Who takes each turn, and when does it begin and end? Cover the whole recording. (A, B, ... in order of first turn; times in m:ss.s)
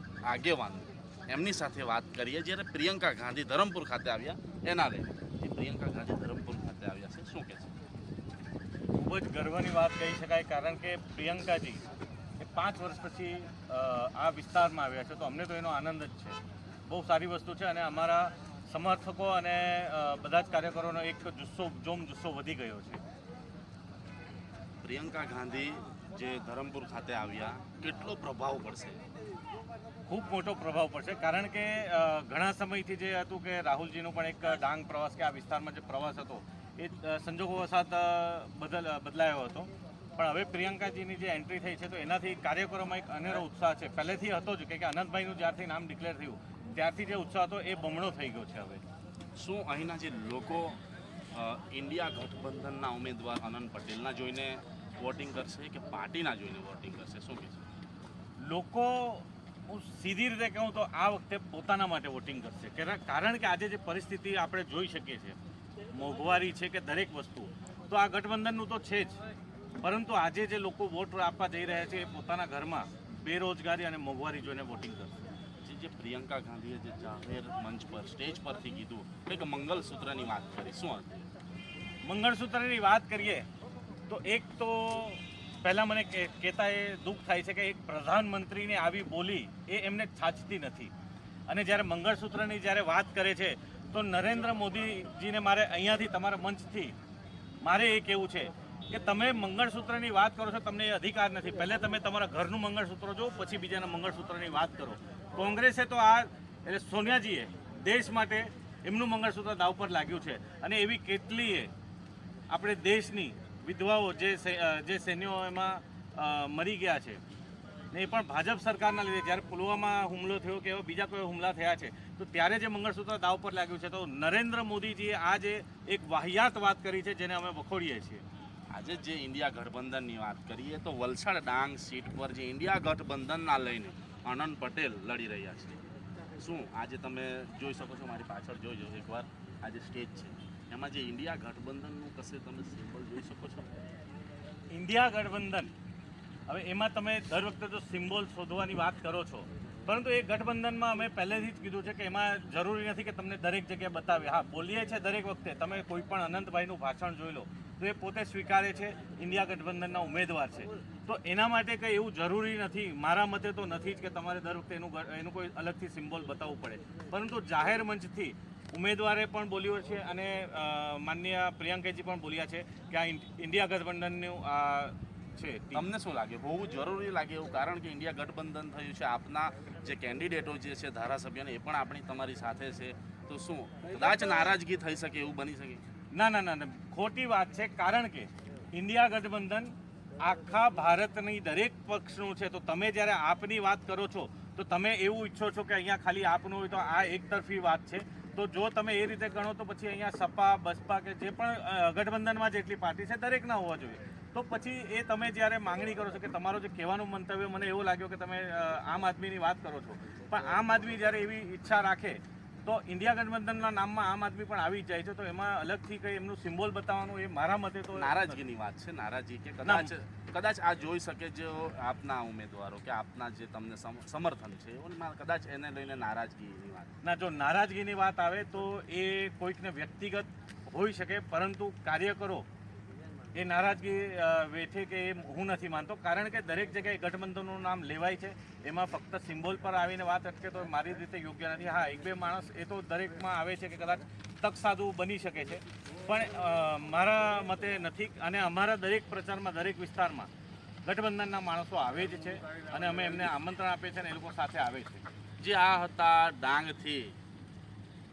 0:00.2-0:07.7 A
0:08.9-0:11.8 B
0:12.4-0:23.0 B
0:24.8-0:29.0 A
0:30.1-0:48.8 B
0:49.4-0:50.8 A
0:51.3-0:57.6 A
0:58.4-1:05.4 B
1:05.9-1:09.2 B
1:09.8-1:15.3 B
1:15.6-1:21.1 A
1:22.0-1:23.5 B
1:24.1-1:30.9 B
1:31.5-1:37.0 B
1:37.6-1:51.7 B
1:52.5-1:57.2 B
1:57.9-2:08.2 B
2:08.7-2:15.8 A
2:16.4-2:23.7 A
2:24.7-2:25.7 B
2:26.5-2:55.9 B
2:55.7-3:05.8 A
3:06.1-3:38.4 B
3:37.9-3:46.9 A
3:39.6-3:39.9 B
3:47.0-3:52.4 B
3:53.3-4:10.3 B
4:10.8-4:15.1 B
4:15.4-4:17.2 A